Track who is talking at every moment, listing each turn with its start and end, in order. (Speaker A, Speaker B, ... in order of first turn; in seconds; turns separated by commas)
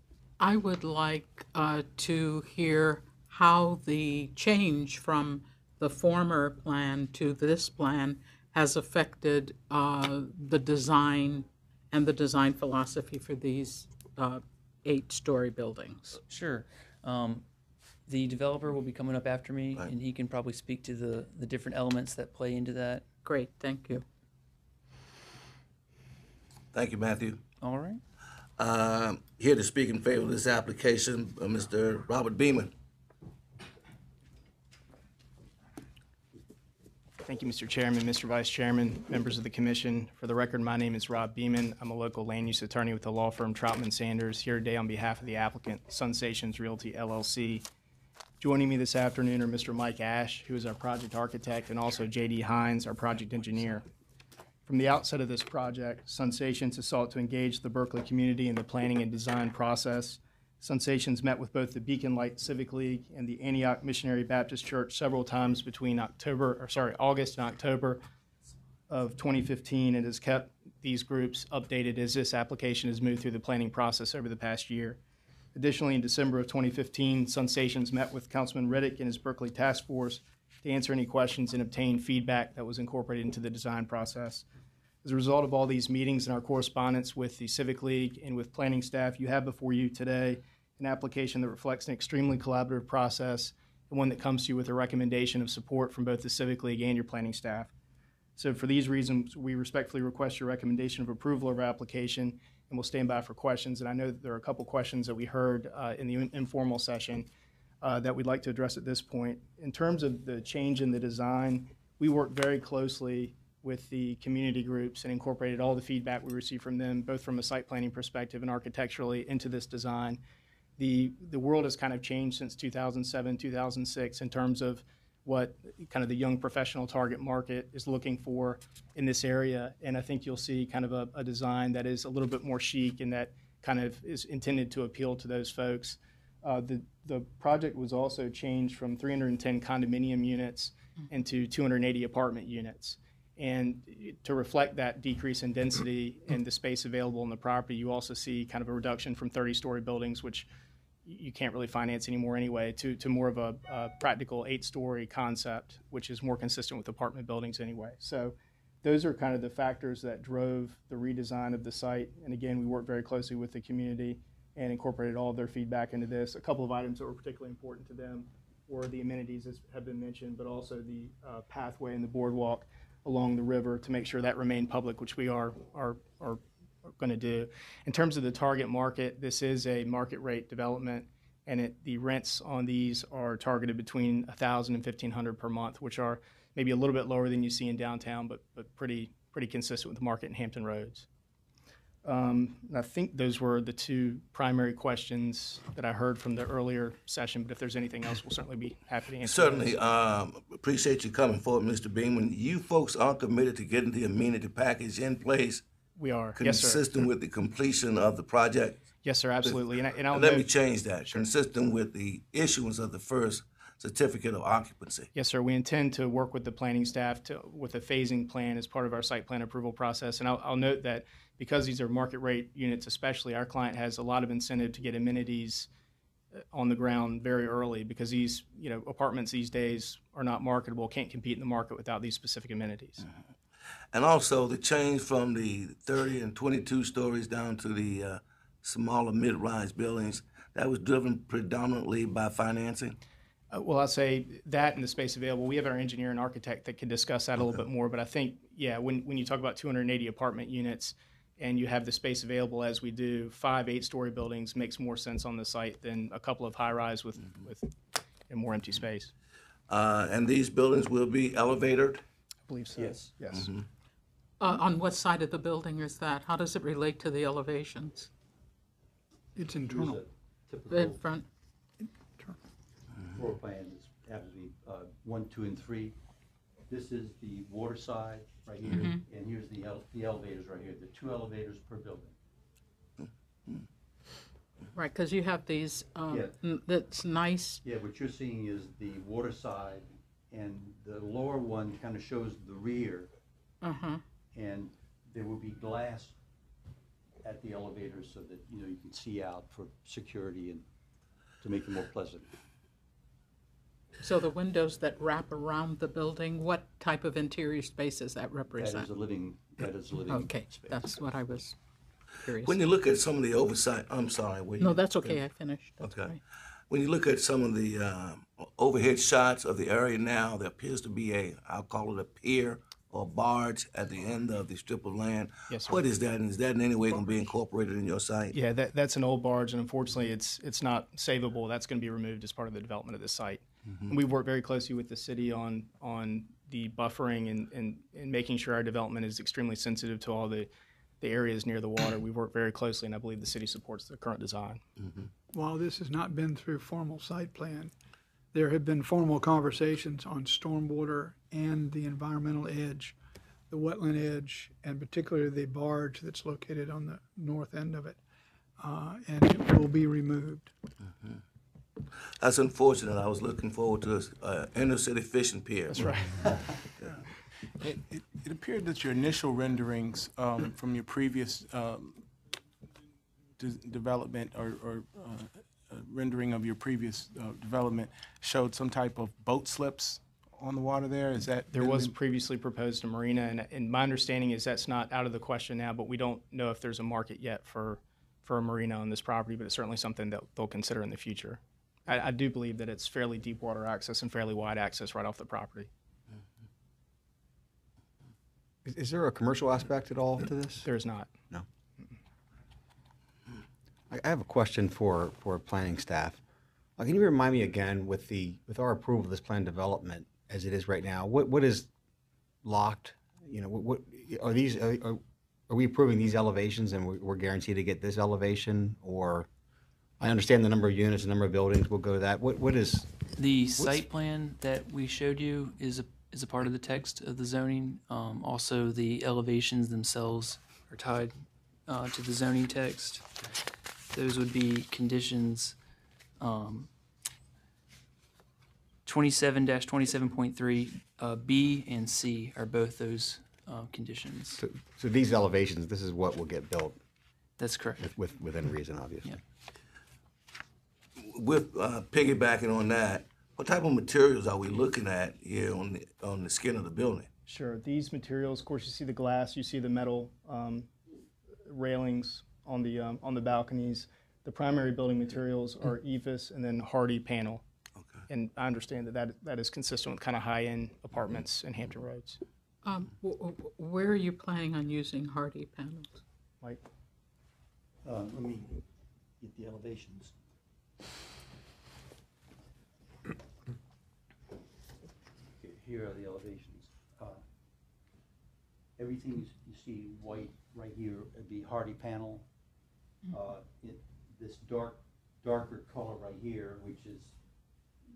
Speaker A: 0.4-16.2, Speaker B: 16.3-17.4, Speaker B: 18.1-23.1, Speaker A: 23.2-24.1, Speaker C: 26.7-27.4, Speaker B: 27.6-28.0, Speaker C: 28.6-32.7, Speaker D: 37.2-47.6, Speaker D: 48.4-53.9, Speaker D: 54.7-68.0, Speaker D: 68.9-75.0, Speaker D: 75.5-84.5, Speaker D: 85.0-97.7, Speaker D: 98.4-107.3, Speaker D: 107.8-120.2, Speaker D: 120.8-150.5, Speaker D: 151.1-191.1, Speaker D: 192.0-199.8, Speaker C: 199.2-205.6, Speaker D: 206.0-206.8, Speaker C: 206.3-208.9, Speaker D: 209.0-210.5, Speaker C: 209.4-215.1, Speaker D: 215.1-225.7, Speaker D: 226.4-233.1, Speaker C: 233.9-243.0, Speaker D: 243.5-257.7, Speaker D: 258.3-259.1, Speaker C: 259.7-262.0, Speaker D: 262.5-263.5, Speaker E: 262.8-263.2, Speaker A: 264.4-268.1, Speaker F: 269.4-270.0, Speaker E: 269.7-271.0, Speaker A: 270.7-271.3, Speaker F: 271.8-272.4, Speaker E: 273.1-276.0, Speaker E: 276.7-282.1, Speaker A: 278.7-279.0, Speaker A: 284.7-287.6, Speaker E: 286.1-286.4, Speaker E: 287.6-293.1, Speaker A: 293.6-294.0, Speaker E: 294.3-296.1, Speaker E: 297.2-300.6, Speaker E: 301.4-302.3, Speaker A: 304.0-308.9, Speaker E: 308.5-310.8, Speaker A: 310.1-311.6, Speaker A: 312.2-312.6, Speaker C: 312.4-315.2, Speaker A: 314.6-316.2, Speaker C: 315.8-316.2, Speaker C: 316.7-328.4, Speaker D: 325.5-325.8, Speaker D: 328.3-340.5, Speaker D: 341.0-344.6, Speaker F: 345.3-347.7, Speaker F: 348.3-352.9, Speaker F: 353.5-358.0, Speaker F: 358.6-360.5, Speaker C: 362.2-366.2, Speaker D: 365.7-366.5, Speaker G: 367.6-372.1, Speaker G: 373.4-381.9, Speaker D: 381.5-395.7, Speaker H: 398.7-400.7, Speaker D: 400.6-401.1, Speaker H: 403.9-406.2, Speaker H: 406.8-411.7, Speaker H: 412.4-419.3, Speaker H: 420.0-422.9, Speaker B: 423.2-431.1, Speaker H: 423.6-423.8, Speaker B: 431.7-433.1, Speaker B: 433.9-435.6, Speaker B: 436.2-436.7, Speaker B: 438.9-444.4, Speaker H: 444.4-446.8, Speaker B: 447.4-447.9, Speaker H: 447.8-449.2, Speaker C: 451.0-457.1, Speaker D: 457.3-460.7, Speaker D: 461.4-467.4, Speaker D: 468.1-472.2, Speaker A: 472.6-476.0, Speaker E: 477.8-478.6, Speaker E: 479.2-480.1, Speaker E: 485.4-487.2, Speaker E: 488.8-492.3, Speaker E: 493.1-497.2